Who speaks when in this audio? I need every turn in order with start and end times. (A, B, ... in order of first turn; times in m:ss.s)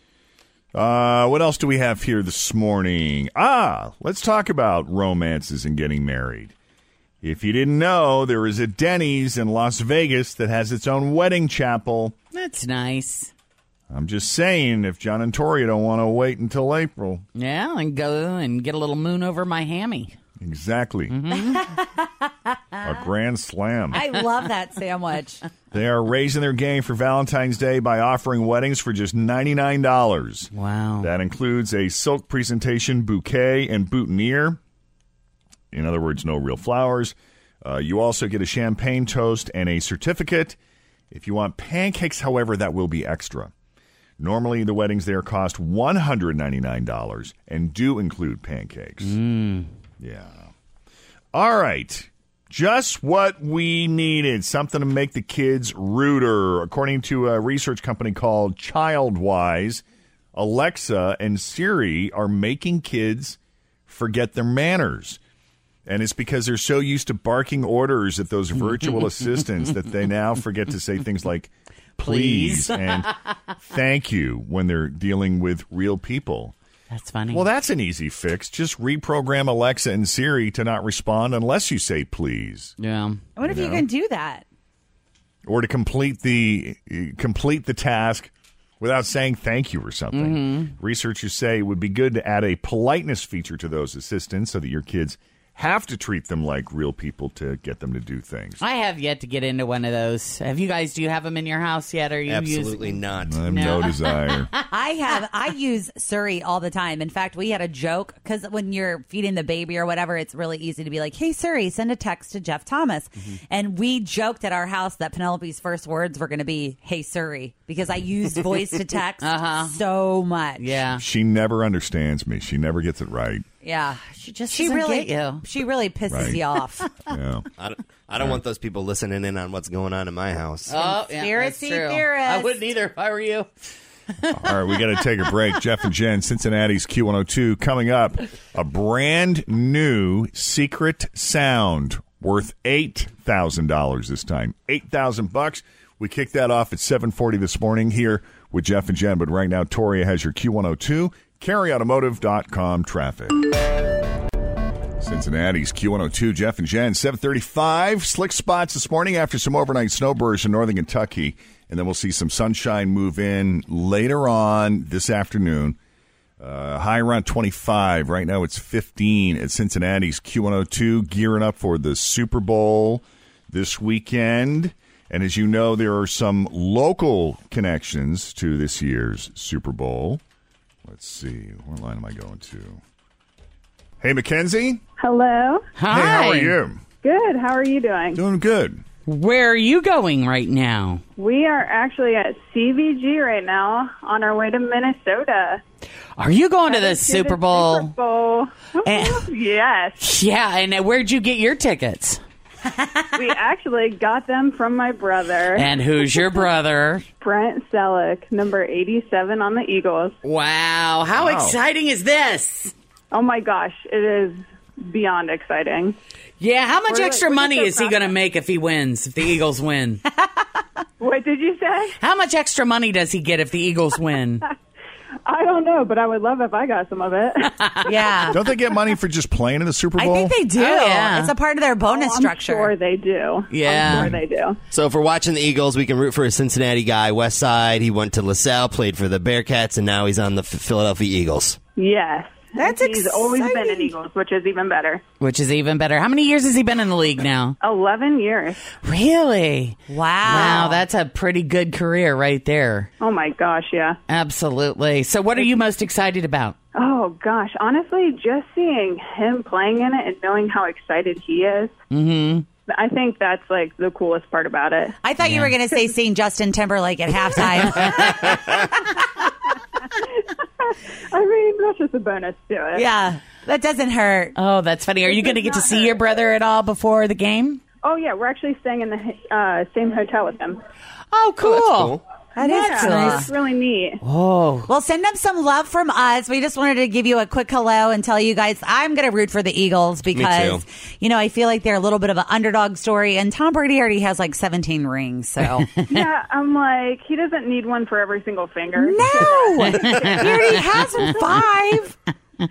0:00.7-0:06.5 A
0:07.2-0:12.1 A
0:12.3-0:13.3 B
0:13.9-0:17.2 A
0:17.3-0:20.2 B
0:20.4-0:21.1 A
0:21.1-0:21.7 B
0:21.5-0:22.8 C
0:22.8-0:24.0 A
0:23.9-0:25.4 C
0:25.7-0:30.5 A
0:30.5-0:31.1 B
0:31.0-0:34.6 A
0:35.7-0:40.6 A
0:41.1-0:43.5 A
0:44.2-0:49.2 A
0:49.0-0:49.7 B
0:50.0-0:50.5 A
0:51.3-0:59.8 A
1:00.3-1:05.2 A
1:05.8-1:13.1 A
1:08.6-1:09.8 B
1:12.0-1:13.3 B
1:13.6-1:16.5 A
1:16.9-1:17.5 B
1:17.3-1:22.7 A
1:22.8-1:23.2 B
1:23.4-1:24.4 C
1:23.4-1:23.9 A
1:25.4-1:38.6 A
1:30.1-1:30.7 B
1:38.6-1:44.5 B
1:42.3-1:43.4 D
1:43.2-1:44.5 A
1:44.6-2:00.6 C
1:59.2-1:59.8 B
2:00.6-2:01.0 B
2:01.0-2:03.4 A
2:03.6-2:06.9 C
2:04.0-2:05.4 B
2:06.1-2:06.4 A
2:07.0-2:07.4 A
2:07.6-2:10.8 D
2:10.7-2:13.5 B
2:11.0-2:12.6 C
2:14.3-2:33.4 A
2:35.0-2:45.8 A
2:46.4-3:00.2 A
3:00.8-3:02.8 A
3:04.0-3:04.8 A
3:05.0-3:05.7 E
3:05.8-3:06.6 B
3:05.9-3:06.8 A
3:07.0-3:08.2 E
3:08.1-3:08.8 A
3:09.0-3:11.0 B
3:11.2-3:15.6 E
3:16.2-3:17.9 B
3:16.7-3:20.0 E
3:18.8-3:19.2 B
3:20.0-3:22.2 B
3:23.1-3:26.5 E
3:25.5-3:27.0 B
3:27.2-3:30.2 E
3:30.2-3:32.7 B
3:31.2-3:31.6 A
3:33.1-3:35.9 E
3:36.4-3:40.0 B
3:36.9-3:38.1 E
3:41.0-3:41.9 E
3:42.0-3:44.4 B
3:45.3-3:47.5 E
3:47.4-3:48.2 B
3:47.8-3:48.4 C
3:48.3-3:50.3 A
3:50.0-3:52.7 C
3:50.5-3:51.3 B
3:51.8-3:54.6 E
3:53.5-3:54.2 B
3:54.7-4:01.6 D
4:01.8-4:05.0 E
4:02.6-4:03.9 C
4:05.2-4:07.6 B
4:07.6-4:08.6 E
4:08.8-4:12.9 B
4:09.9-4:10.8 C
4:10.3-4:10.7 E
4:13.0-4:14.0 E
4:14.1-4:16.6 B
4:16.8-4:21.7 E
4:21.9-4:22.4 B
4:22.7-4:24.9 E
4:25.0-4:28.6 C
4:25.2-4:25.5 B
4:27.6-4:28.2 B
4:31.1-4:32.8 E
4:32.7-4:34.3 C
4:34.3-4:37.6 B
4:35.0-4:36.1 E
4:37.8-4:40.6 E
4:41.1-4:43.3 B
4:41.4-4:42.0 D
4:42.4-4:43.3 C
4:42.4-4:44.0 E
4:44.0-4:44.7 B
4:44.7-4:55.7 C
4:50.1-4:50.6 D
4:55.7-4:56.1 B
4:55.9-4:59.9 E
4:58.8-5:01.9 C
4:59.6-5:01.4 B